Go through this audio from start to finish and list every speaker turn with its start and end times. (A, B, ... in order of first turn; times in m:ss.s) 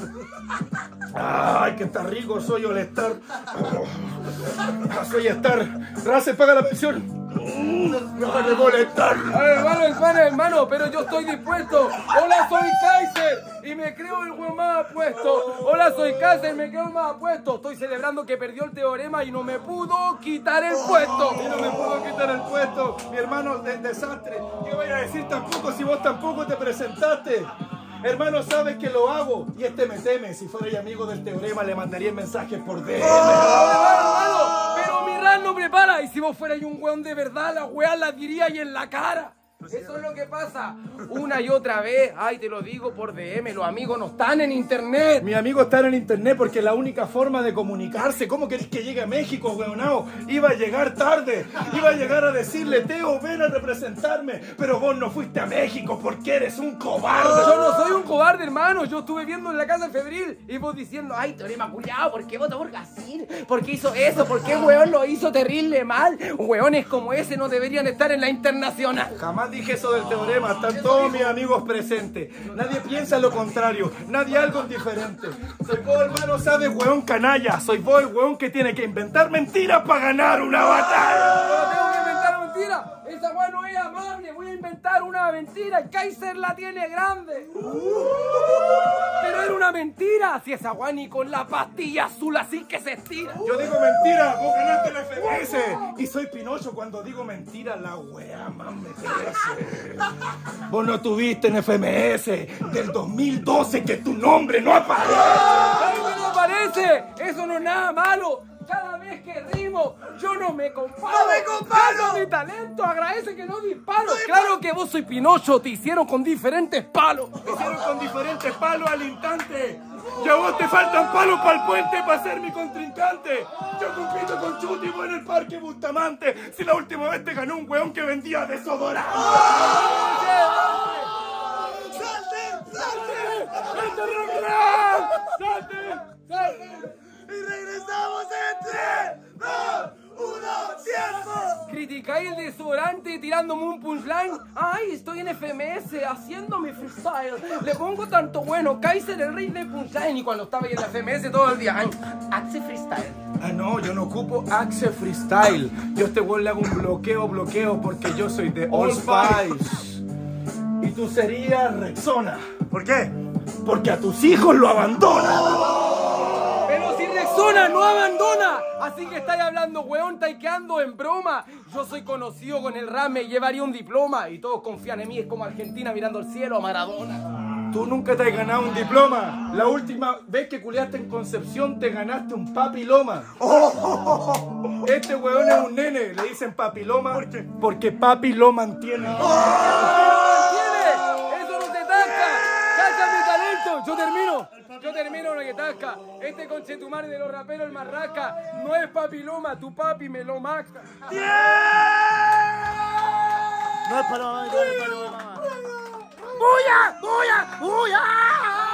0:01.1-0:09.6 A
0:09.3-0:21.4 B
0:21.3-0:27.5 A
0:28.0-0:33.8 A
0:33.0-0:45.3 B
0:45.2-0:58.0 A
0:57.2-1:09.1 B
1:09.2-1:21.8 A
1:10.7-1:11.4 B
1:21.4-1:33.5 B
1:27.7-1:28.2 A
1:33.4-1:40.1 A
1:40.7-1:45.8 A
1:45.4-1:57.7 B
1:51.3-1:52.2 A
1:57.4-2:10.0 A
2:09.3-2:11.1 B
2:11.6-2:15.4 A
2:12.7-2:16.8 B
2:16.7-2:21.6 A
2:21.6-2:33.2 B
2:33.4-2:40.0 A
2:38.7-2:39.6 B
2:40.8-2:42.5 A
2:42.7-2:43.1 C
2:43.6-2:45.7 A
2:46.7-2:57.2 B
2:57.7-3:03.4 A
3:03.4-3:04.4 C
3:04.8-3:09.9 A
3:09.3-3:21.1 B
3:21.1-3:22.2 A
3:23.8-3:25.5 C
3:26.2-3:27.4 B
3:27.4-3:28.5 C